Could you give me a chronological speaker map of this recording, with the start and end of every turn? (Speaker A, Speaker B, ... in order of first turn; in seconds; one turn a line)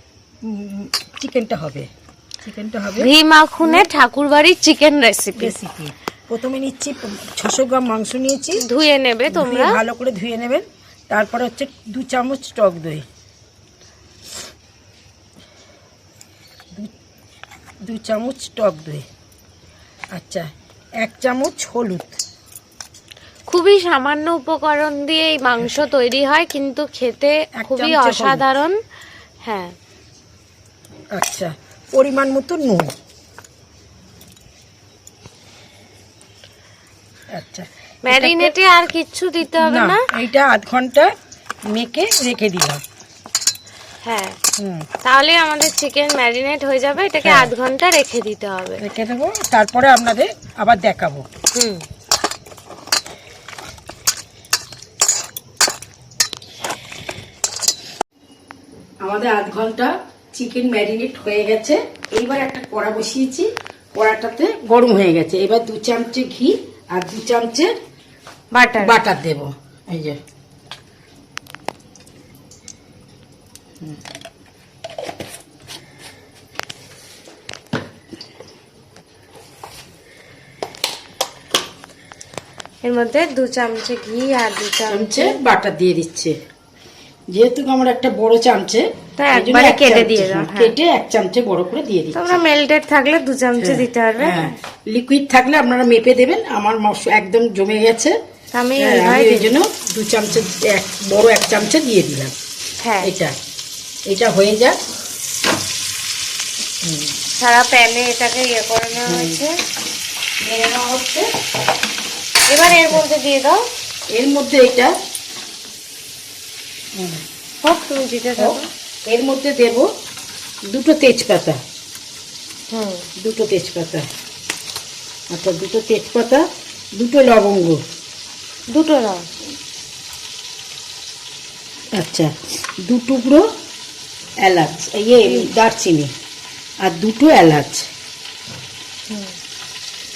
Speaker A: 0.5-1.9
Speaker A: 2.4-3.1
Speaker B: 3.0-5.5
Speaker A: 5.4-8.6
Speaker B: 8.6-9.8
Speaker A: 9.3-13.0
Speaker A: 17.9-19.0
Speaker A: 20.1-22.2
Speaker B: 23.5-28.8
Speaker A: 27.6-28.4
Speaker B: 29.4-29.7
Speaker A: 31.1-32.9
Speaker A: 37.3-38.5
Speaker B: 38.0-40.0
Speaker A: 39.6-41.1
Speaker A: 41.7-42.8
Speaker B: 44.0-44.4
Speaker A: 44.6-44.9
Speaker B: 45.0-48.8
Speaker A: 47.2-47.5
Speaker A: 48.8-51.2
Speaker B: 51.5-51.8
Speaker A: 59.0-67.7
Speaker B: 68.5-69.0
Speaker A: 68.8-70.2
Speaker B: 82.8-85.4
Speaker A: 84.9-86.4
Speaker A: 87.3-92.4
Speaker B: 89.2-90.8
Speaker B: 92.2-94.5
Speaker A: 93.6-98.2
Speaker B: 98.5-99.6
Speaker A: 98.8-102.3
Speaker B: 102.8-103.1
Speaker A: 103.0-103.3
Speaker A: 104.1-104.8
Speaker A: 106.8-107.1
Speaker B: 107.3-109.6
Speaker A: 109.1-109.4
Speaker A: 110.4-111.3
Speaker B: 112.5-113.6
Speaker A: 112.7-113.0
Speaker A: 114.1-114.9
Speaker B: 117.6-118.7
Speaker A: 118.4-119.9
Speaker A: 120.7-121.6
Speaker B: 122.7-123.1
Speaker A: 123.2-124.1
Speaker A: 125.3-126.5
Speaker A: 127.0-127.8
Speaker B: 128.7-129.2
Speaker A: 131.9-133.5
Speaker A: 134.4-136.1
Speaker A: 136.8-137.9